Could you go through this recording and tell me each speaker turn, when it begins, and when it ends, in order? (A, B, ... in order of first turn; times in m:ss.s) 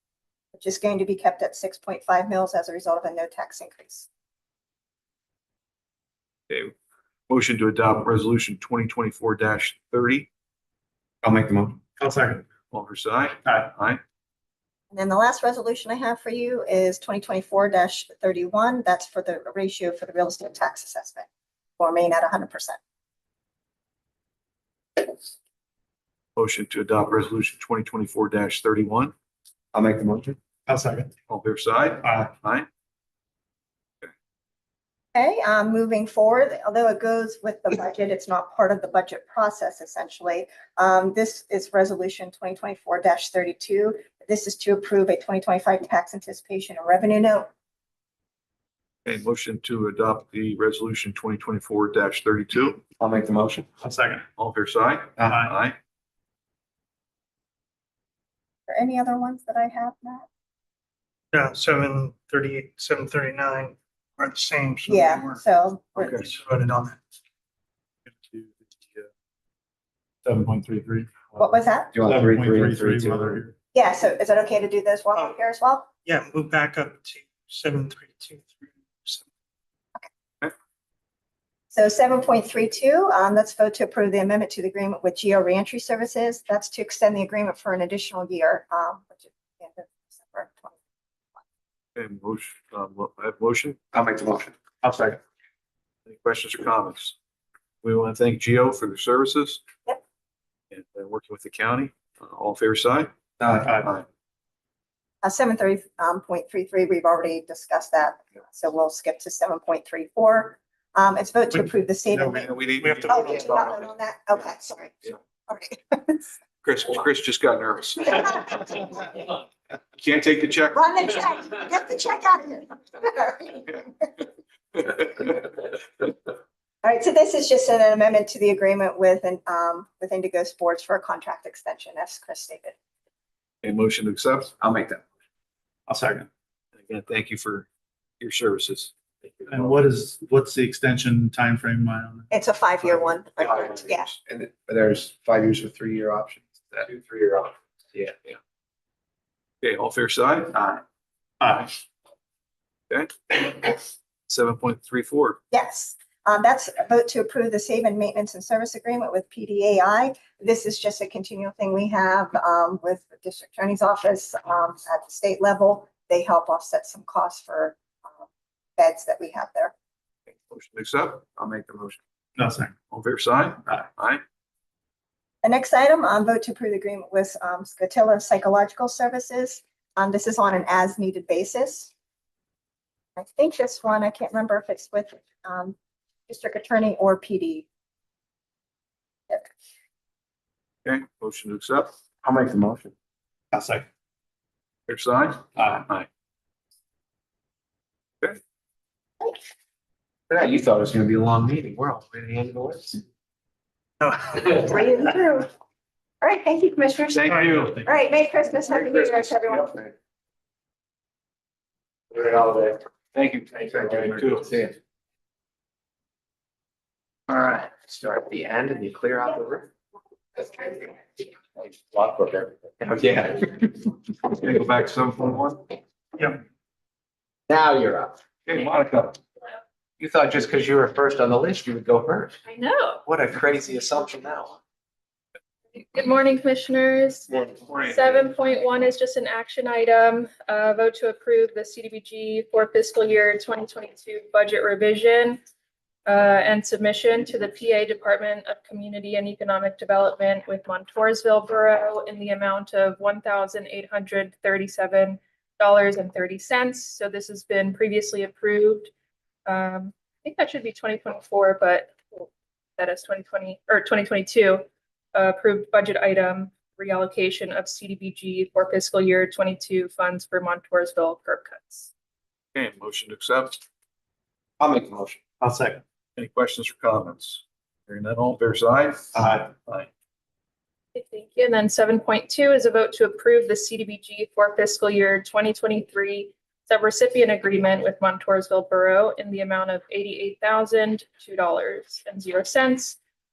0:00.5-0:04.1 A
0:07.3-0:10.3 B
0:11.2-0:11.8 C
0:12.0-0:12.4 D
0:12.7-0:14.0 B
0:13.4-0:13.7 D
0:14.9-0:21.3 A
0:21.8-0:22.8 A
0:26.4-0:29.1 B
0:29.7-0:30.4 C
0:30.7-0:31.1 D
0:31.3-0:32.7 B
0:32.0-0:32.3 D
0:35.2-0:47.5 A
0:49.1-0:52.8 B
0:53.0-0:53.7 C
0:53.8-0:54.2 D
0:54.4-0:55.8 B
0:55.2-0:55.5 D
0:58.7-1:00.3 A
1:01.3-1:05.4 E
1:04.9-1:06.3 A
1:06.0-1:06.3 B
1:06.2-1:07.0 E
1:08.2-1:09.0 D
1:10.3-1:11.3 D
1:11.4-1:11.9 A
1:11.9-1:13.4 C
1:12.1-1:13.5 D
1:13.7-1:15.9 A
1:16.0-1:19.3 E
1:21.7-1:30.8 A
1:32.0-1:33.8 B
1:33.9-1:34.5 C
1:34.8-1:35.2 D
1:36.1-1:37.2 B
1:37.8-1:39.6 B
1:40.7-1:43.1 B
1:43.4-1:43.7 C
1:45.2-1:52.5 A
1:52.2-1:52.8 D
1:52.4-1:53.9 B
1:53.0-1:56.4 A
1:56.6-1:58.8 B
2:00.0-2:00.9 B
2:00.7-2:03.7 A
2:04.8-2:05.3 B
2:06.8-2:12.8 A
2:13.6-2:14.5 B
2:14.6-2:15.0 C
2:15.9-2:16.3 D
2:16.8-2:17.7 B
2:18.2-2:18.9 B
2:19.5-2:22.3 D
2:22.3-2:24.1 A
2:24.3-2:28.3 C
2:29.6-2:30.6 B
2:31.4-2:31.8 D
2:32.9-2:35.4 B
2:35.5-2:49.7 A
2:50.3-2:51.2 B
2:51.4-2:52.0 C
2:52.4-2:52.7 D
2:52.9-2:54.2 B
2:55.4-3:01.9 A
3:03.2-3:05.8 A
3:06.3-3:07.7 A
3:10.8-3:11.9 B
3:12.2-3:12.9 C
3:13.5-3:13.8 D
3:14.9-3:16.1 B
3:15.6-3:15.9 D
3:20.3-3:23.0 C
3:24.4-3:25.5 A
3:26.2-3:29.8 A
3:27.1-3:27.8 B
3:32.1-3:32.8 C
3:33.1-3:34.5 B
3:33.7-3:34.8 C
3:37.3-3:39.7 C
3:40.4-3:40.8 C
3:41.6-3:43.7 C
3:44.3-3:45.7 B
3:47.5-3:48.2 C
3:48.5-3:49.2 B
3:50.0-3:52.3 C
3:52.5-3:53.0 F
3:53.1-3:54.6 C
3:55.7-4:05.4 F
3:57.3-3:58.2 B
4:06.1-4:18.9 F
4:19.5-4:31.9 F
4:32.6-4:33.6 B
4:34.6-4:35.2 C
4:35.4-4:35.8 D
4:36.2-4:39.9 B
4:39.2-4:39.5 D
4:41.0-4:53.0 F